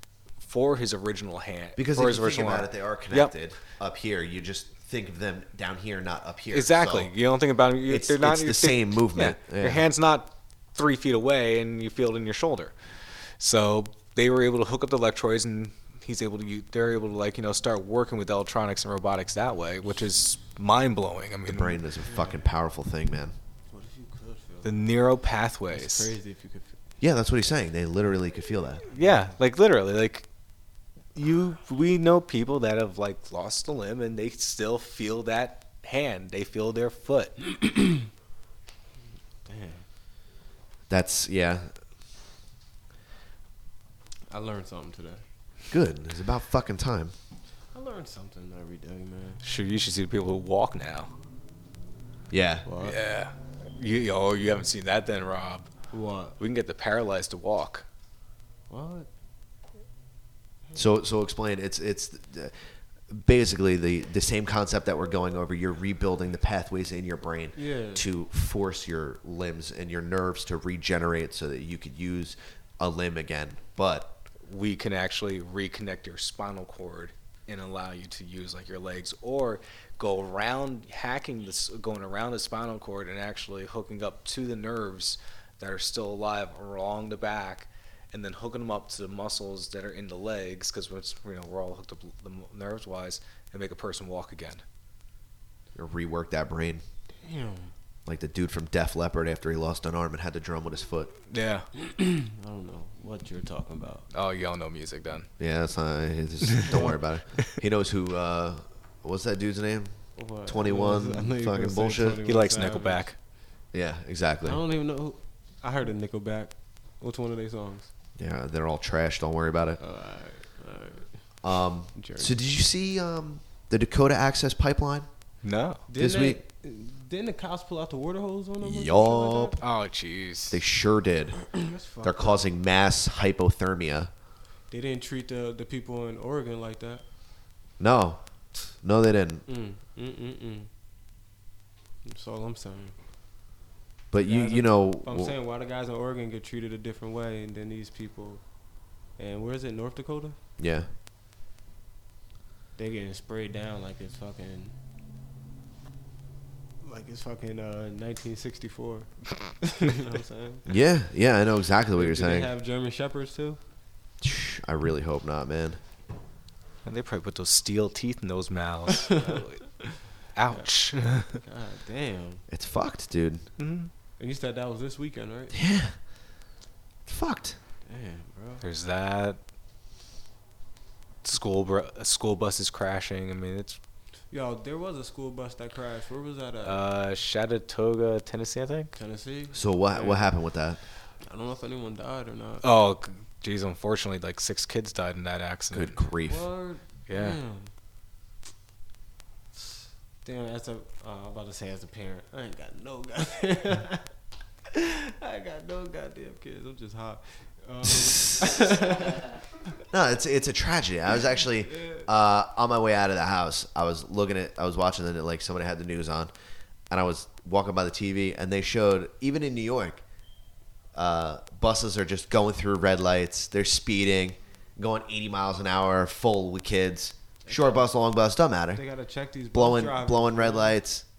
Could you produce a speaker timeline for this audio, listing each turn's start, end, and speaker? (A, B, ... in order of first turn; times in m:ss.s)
0:00.4-0:03.3 A
0:01.8-0:07.1 B
0:06.5-0:12.8 A
0:07.9-0:09.8 B
0:13.4-0:21.8 A
0:21.5-0:23.4 B
0:22.0-0:22.5 C
0:23.7-0:25.0 C
0:24.6-0:26.1 A
0:25.7-0:26.8 C
0:27.0-0:28.9 B
0:28.9-0:30.3 A
0:31.1-0:37.4 A
0:37.6-0:38.0 C
0:39.4-0:39.9 C
0:40.9-0:41.7 B
0:44.3-0:45.2 C
0:45.7-0:47.1 B
0:47.7-0:49.4 C
0:49.4-0:51.1 A
0:52.3-0:52.7 B
0:52.7-0:53.0 C
0:52.8-0:55.7 A
0:55.9-0:56.4 C
0:56.4-0:57.8 A
0:58.7-0:59.1 C
1:00.8-1:02.6 B
1:03.1-1:14.2 B
1:07.6-1:08.1 C
1:14.5-1:34.6 A
1:35.8-1:36.8 B
1:37.2-1:37.7 C
1:38.1-1:41.1 B
1:41.3-1:41.7 A
1:41.8-1:44.1 C
1:44.1-1:45.3 A
1:45.4-1:52.2 B
1:50.2-1:53.1 C
1:52.3-1:53.1 A
1:53.7-1:54.6 B
1:54.4-1:57.9 C
1:58.2-1:59.8 B
1:59.8-2:01.2 C
2:01.4-2:05.1 B
2:02.0-2:02.4 C
2:05.4-2:05.8 A
2:05.9-2:09.6 C
2:06.0-2:06.4 B
2:08.6-2:09.6 B
2:09.6-2:10.6 A
2:10.5-2:14.1 B
2:11.5-2:12.4 C
2:14.7-2:17.0 C
2:17.8-2:19.4 B
2:19.5-2:20.7 C
2:22.0-2:23.0 C
2:24.1-2:25.3 B
2:24.2-2:28.5 C
2:29.2-2:30.4 C
2:30.6-2:30.9 B
2:32.8-2:34.8 C
2:36.8-2:40.7 C
2:40.7-2:42.5 B
2:42.0-2:43.6 C
2:44.2-2:45.8 B
2:46.8-2:49.6 A
2:49.1-2:50.0 C
2:50.4-2:51.4 A
2:50.5-2:52.4 C
2:52.5-2:53.5 B
2:53.6-2:53.9 A
2:54.2-2:55.6 C
2:55.5-2:56.0 B
2:57.1-2:57.6 B
2:57.9-2:58.6 C
2:58.6-2:59.4 A
3:01.2-3:03.8 A
3:04.3-3:06.8 C
3:06.6-3:08.9 A
3:09.0-3:10.3 C
3:09.5-3:10.8 B
3:11.2-3:12.7 C
3:12.6-3:16.0 A
3:15.7-3:16.5 B
3:16.3-3:17.7 C
3:17.1-3:17.4 A
3:20.2-3:24.1 C
3:24.7-3:29.3 C
3:29.9-3:36.3 B
3:31.7-3:32.1 C
3:36.9-3:40.0 B
3:40.9-3:48.8 B
3:47.5-3:47.8 C
3:48.8-3:50.7 C
3:49.5-3:51.0 B